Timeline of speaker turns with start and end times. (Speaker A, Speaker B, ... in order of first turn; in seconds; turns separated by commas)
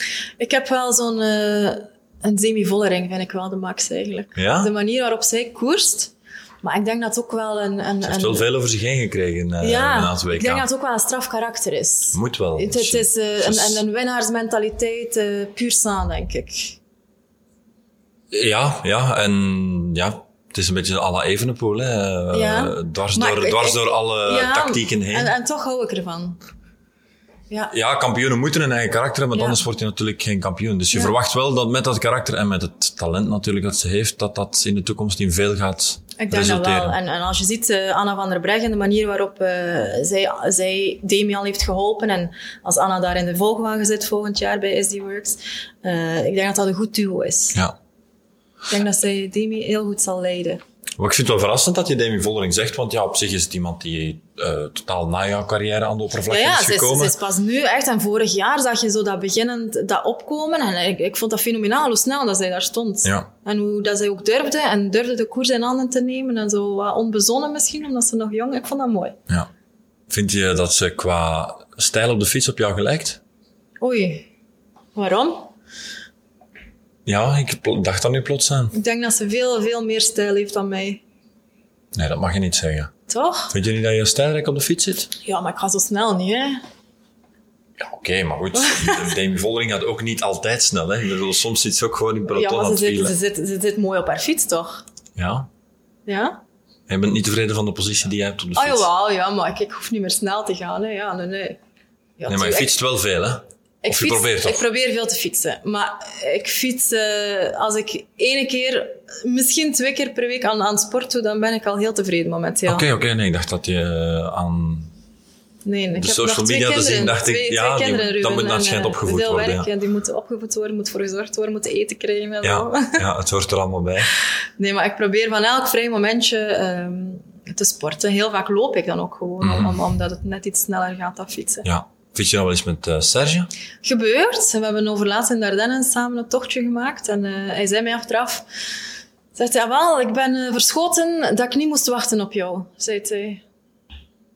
Speaker A: 0.4-8.5, Speaker B: 4.3-4.7, Speaker B: 8.0-10.7, Speaker A: 9.6-16.8, Speaker B: 12.1-13.8, Speaker B: 18.3-25.3, Speaker A: 22.3-26.4, Speaker B: 27.7-37.0, Speaker A: 29.3-29.6, Speaker A: 36.2-47.6, Speaker A: 48.7-50.6, Speaker B: 51.0-57.1, Speaker A: 56.3-69.2, Speaker B: 63.0-63.3, Speaker B: 70.1-73.2, Speaker A: 73.8-74.3, Speaker A: 74.9-75.5, Speaker B: 77.0-78.7, Speaker A: 78.7-81.0, Speaker B: 81.9-82.9, Speaker A: 83.1-83.5, Speaker B: 83.5-85.1, Speaker A: 85.2-86.6, Speaker B: 87.8-93.1, Speaker A: 88.5-89.1, Speaker A: 92.3-94.8, Speaker B: 95.2-95.5, Speaker A: 96.0-96.4, Speaker B: 96.9-98.9, Speaker A: 98.5-101.6, Speaker A: 102.2-102.7, Speaker B: 102.3-104.6, Speaker A: 103.8-112.8, Speaker B: 112.7-114.9, Speaker A: 115.6-123.0, Speaker B: 116.0-119.7, Speaker B: 122.4-124.1, Speaker A: 124.6-131.7, Speaker B: 129.4-129.8, Speaker B: 131.6-133.5, Speaker A: 133.8-138.4, Speaker A: 139.3-143.4